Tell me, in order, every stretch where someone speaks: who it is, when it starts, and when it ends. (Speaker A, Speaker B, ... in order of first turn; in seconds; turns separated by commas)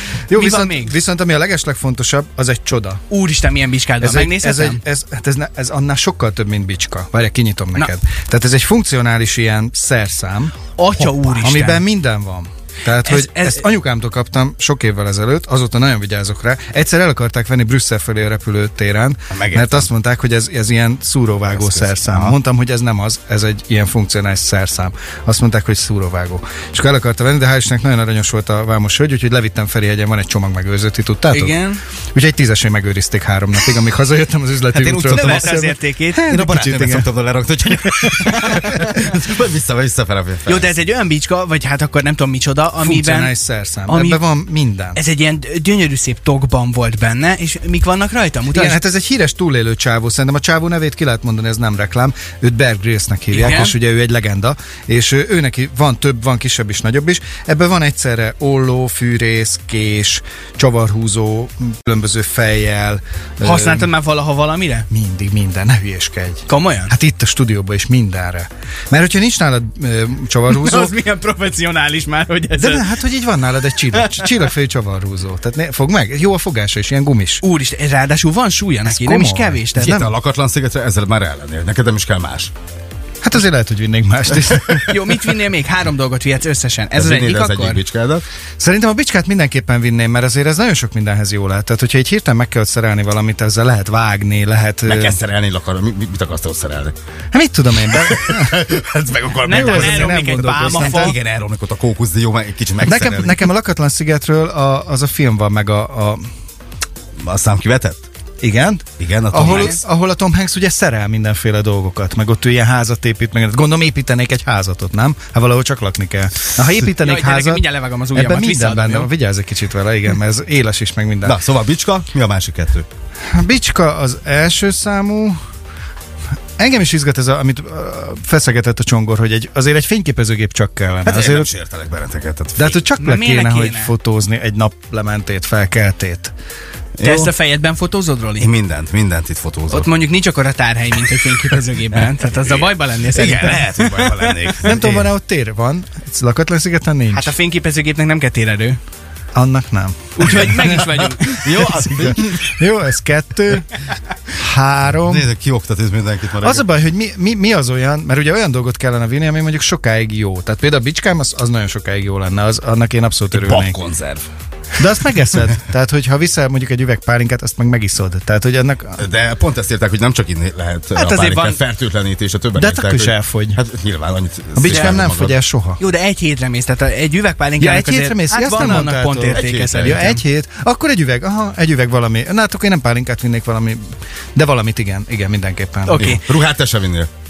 Speaker A: 0.3-3.0, Speaker B: 0.3-0.9, Speaker B: 3.1-4.8, Speaker A: 4.0-31.6, Speaker B: 10.7-11.8, Speaker B: 13.0-13.6, Speaker C: 19.3-19.9, Speaker C: 21.5-22.3, Speaker B: 31.3-31.8, Speaker A: 32.1-37.1, Speaker C: 34.7-35.6, Speaker B: 35.1-36.3, Speaker C: 36.3-40.7, Speaker A: 38.5-38.8, Speaker B: 40.5-43.4, Speaker A: 42.8-45.0, Speaker B: 43.9-44.2, Speaker B: 44.9-48.8, Speaker A: 48.5-63.9, Speaker B: 53.3-53.7, Speaker B: 63.4-64.9, Speaker A: 64.9-70.9, Speaker B: 66.5-66.9, Speaker B: 70.5-72.9, Speaker A: 72.6-77.4, Speaker B: 73.9-74.3, Speaker B: 77.4-80.1, Speaker A: 78.8-80.0, Speaker C: 79.7-82.5, Speaker A: 83.2-85.2, Speaker B: 84.9-87.8, Speaker C: 87.0-88.2, Speaker A: 88.6-95.2, Speaker C: 94.8-96.9, Speaker A: 97.3-98.7, Speaker C: 97.9-103.5, Speaker A: 99.4-101.2, Speaker B: 99.4-101.2, Speaker A: 102.8-106.2, Speaker C: 107.2-108.0, Speaker A: 108.4-121.4, Speaker C: 109.0-109.8, Speaker B: 109.4-109.8, Speaker B: 116.5-119.1, Speaker C: 121.2-122.8, Speaker A: 123.4-125.4, Speaker A: 126.6-131.5, Speaker C: 131.0-132.8, Speaker A: 132.6-136.3, Speaker B: 133.0-133.9, Speaker C: 137.0-137.3, Speaker B: 137.0-138.5, Speaker C: 138.4-139.9, Speaker B: 139.7-144.3, Speaker C: 142.4-145.1, Speaker A: 144.6-147.3, Speaker B: 147.1-148.8, Speaker A: 149.3-155.3, Speaker B: 150.2-151.6, Speaker C: 150.2-152.3, Speaker C: 155.0-156.6, Speaker A: 156.4-163.8, Speaker C: 163.3-164.2, Speaker A: 164.8-169.0, Speaker C: 169.0-175.4, Speaker B: 170.9-171.6, Speaker A: 172.6-173.6, Speaker A: 174.6-175.8, Speaker B: 174.7-175.0, Speaker B: 175.8-180.2, Speaker A: 177.6-183.8, Speaker C: 179.3-180.1, Speaker A: 184.3-186.1, Speaker B: 185.8-186.2, Speaker C: 185.9-187.1